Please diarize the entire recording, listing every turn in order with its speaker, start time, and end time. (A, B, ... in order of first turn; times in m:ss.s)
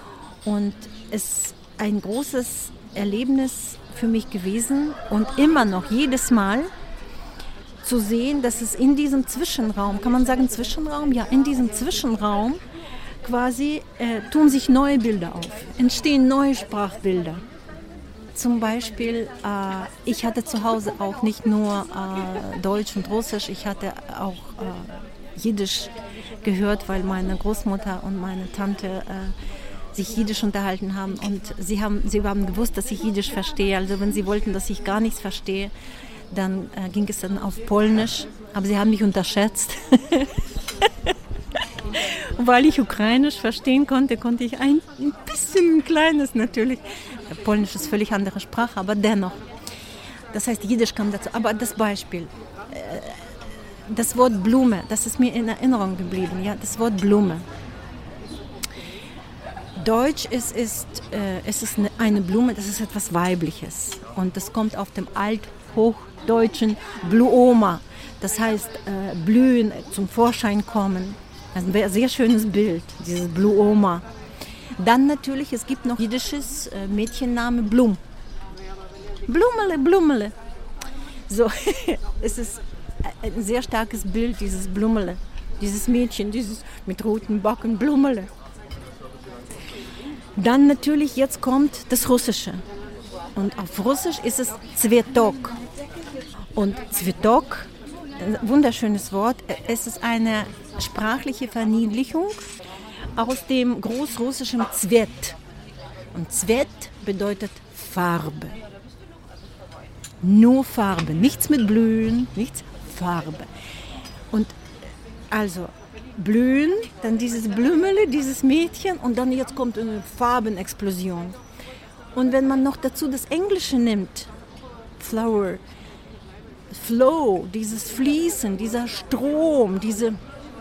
0:00.4-0:06.7 A
0:07.8-0:12.6 A
0:13.2-0:17.4 A
0:18.3-0:29.3 A
0:29.9-0:35.7 A
0:36.3-0:49.4 A
0:50.3-0:53.3 A
0:53.9-0:57.4 A
0:59.8-1:14.0 A
1:14.8-1:18.0 A
1:19.3-1:20.3 A
1:21.3-1:28.3 A
1:30.3-1:32.6 A
1:33.4-1:35.6 A
1:36.6-1:42.5 A
1:43.2-1:45.4 A
1:46.1-1:48.6 A
1:50.2-1:53.5 A
1:54.3-1:54.6 A
1:55.3-2:01.4 A
2:02.1-2:04.3 A
2:05.0-2:05.6 A
2:06.7-2:10.2 A